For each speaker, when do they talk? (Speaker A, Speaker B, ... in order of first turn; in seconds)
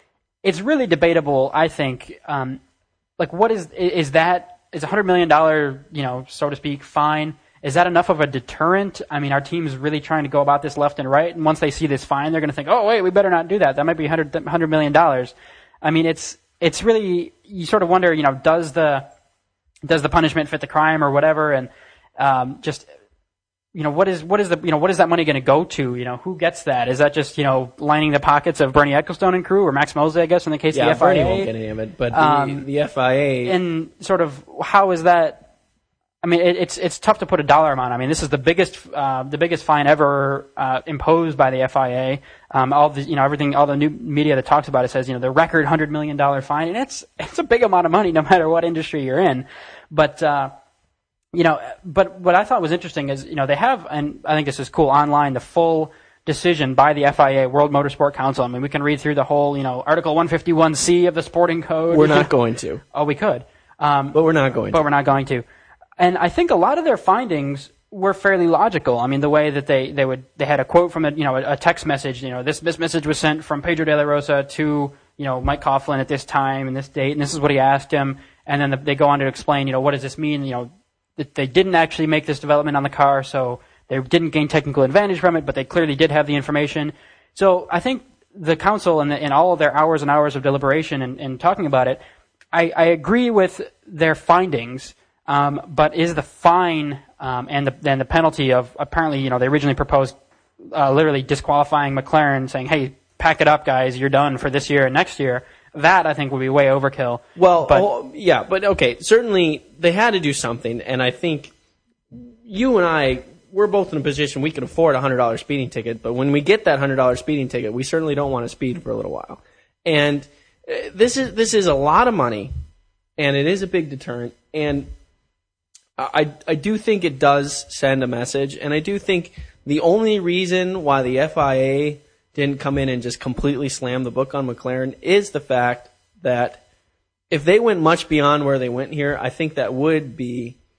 Speaker A: 0.4-2.6, 3.2-19.1, 19.9-22.9, 23.7-31.5, 32.1-32.6, 33.4-35.5, 36.2-50.5, 51.3-62.3, 62.9-64.2, 64.7-65.4, 66.0-92.0, 92.5-107.9
Speaker B: 30.7-33.5, 61.9-62.8, 64.1-64.8, 107.3-111.5, 112.1-122.5, 123.2-124.9, 126.0-136.6, 137.3-140.6